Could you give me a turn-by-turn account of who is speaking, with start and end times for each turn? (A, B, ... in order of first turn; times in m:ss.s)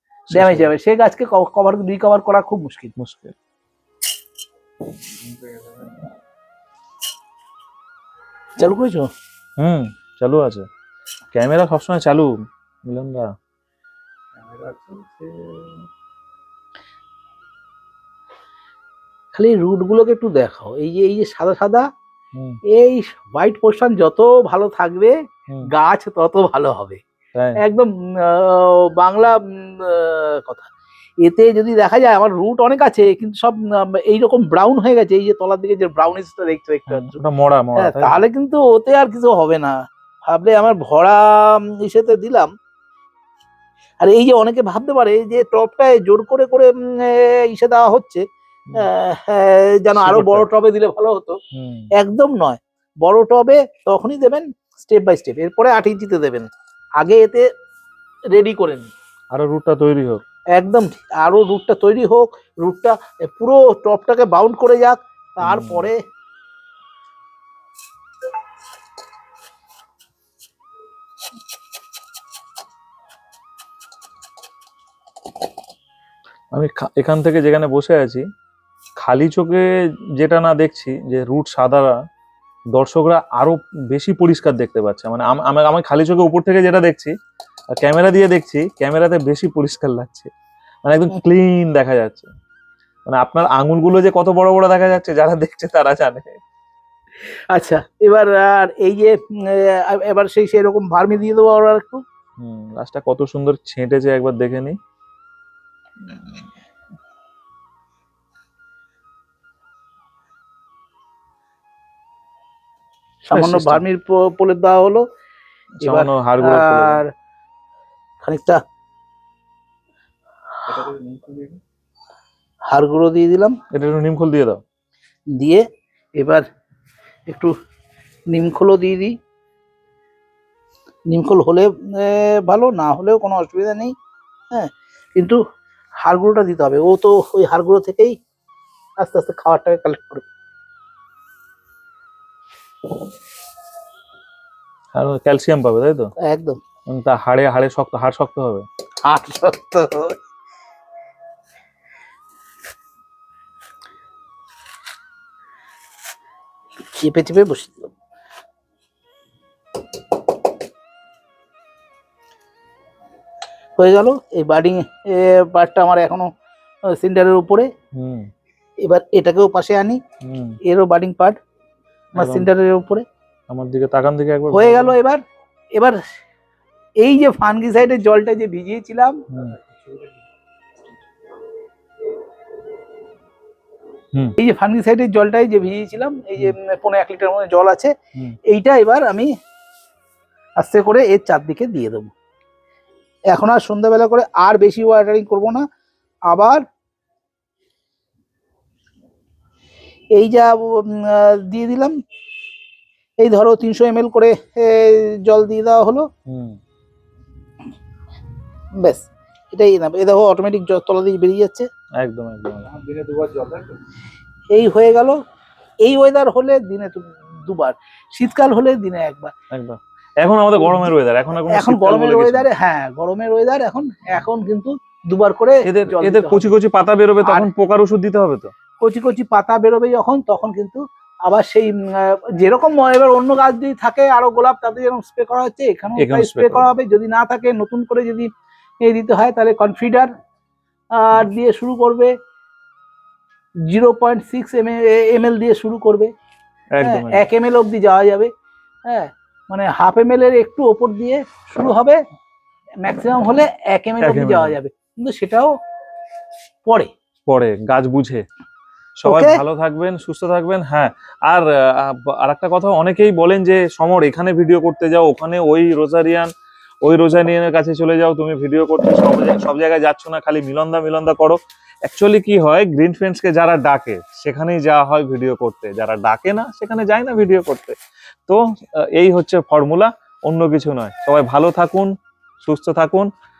0:00.3-0:00.7 A
0:00.3-0:02.9 B
0:03.0-0:03.4 A
0:05.3-0:05.6 C
0:08.6-0:09.1 B
0:09.6-0:10.7 A
0:11.3-0:13.3 A
0:14.4-0:15.8 C
0:19.3-0:21.9 B
0:22.7-0:25.1 B
0:25.7-0:27.0 B
0:27.6-0:30.7 B
0:31.2-0:37.2 B
0:36.9-0:38.2 A
0:37.8-0:39.8 B
0:40.3-0:42.5 B
0:44.0-0:48.2 B
0:48.7-0:51.4 B
0:49.9-0:50.5 A
0:51.5-0:51.9 A
0:52.0-0:57.5 B
0:58.3-0:58.9 B
0:59.3-1:00.2 A
1:00.5-1:06.0 B
1:05.4-1:05.9 A
1:16.5-1:18.2 A
1:19.0-1:19.7 A
1:20.2-1:22.0 A
1:22.7-1:27.1 A
1:27.7-1:30.3 A
1:30.8-1:32.3 A
1:33.0-1:36.4 A
1:37.5-1:42.0 B
1:42.4-1:44.8 A
1:53.3-1:55.0 B
1:53.3-1:53.8 A
1:55.8-1:57.0 A
1:55.8-1:57.1 B
1:58.2-1:58.6 B
2:00.7-2:01.6 C
2:02.7-2:03.6 B
2:03.7-2:04.6 A
2:05.3-2:05.6 B
2:06.2-2:06.4 B
2:07.3-2:07.5 B
2:08.3-2:09.1 B
2:11.1-2:13.9 B
2:14.5-2:15.4 B
2:16.0-2:18.2 B
2:19.0-2:20.2 B
2:24.9-2:26.1 A
2:26.2-2:26.6 B
2:26.9-2:28.6 A
2:29.0-2:30.2 B
2:36.9-2:37.9 B
2:43.8-2:46.3 B
2:46.9-2:47.7 B
2:47.9-2:48.3 A
2:48.8-2:50.0 B
2:50.2-2:50.6 A
2:50.6-2:51.4 B
2:52.2-2:52.5 A
2:52.2-2:53.0 B
2:53.5-2:54.9 A
2:54.5-2:55.2 B
2:55.7-2:56.0 B
2:57.0-2:59.2 B
2:59.3-2:59.6 A
3:04.4-3:07.9 B
3:08.5-3:09.3 B
3:10.6-3:12.1 B
3:13.3-3:15.6 B
3:16.3-3:16.6 B
3:20.2-3:21.9 B
3:23.2-3:26.1 B
3:26.3-3:26.6 A
3:28.8-3:31.7 B
3:32.0-3:32.7 A
3:32.6-3:33.8 C
3:34.5-3:35.2 B
3:35.8-3:39.3 B
3:39.5-3:42.5 A
3:41.5-3:46.5 B
3:45.6-3:48.5 A
3:48.8-3:58.3 B
3:56.0-3:56.7 A
3:58.8-4:00.1 B
4:00.9-4:02.1 B
4:03.7-4:06.1 B
4:06.8-4:07.3 A
4:06.8-4:08.3 B
4:08.9-4:12.0 B
4:12.8-4:15.5 B
4:14.0-4:14.5 A
4:17.3-4:18.2 A
4:19.0-4:26.3 A
4:19.0-4:19.4 B
4:26.8-4:43.1 A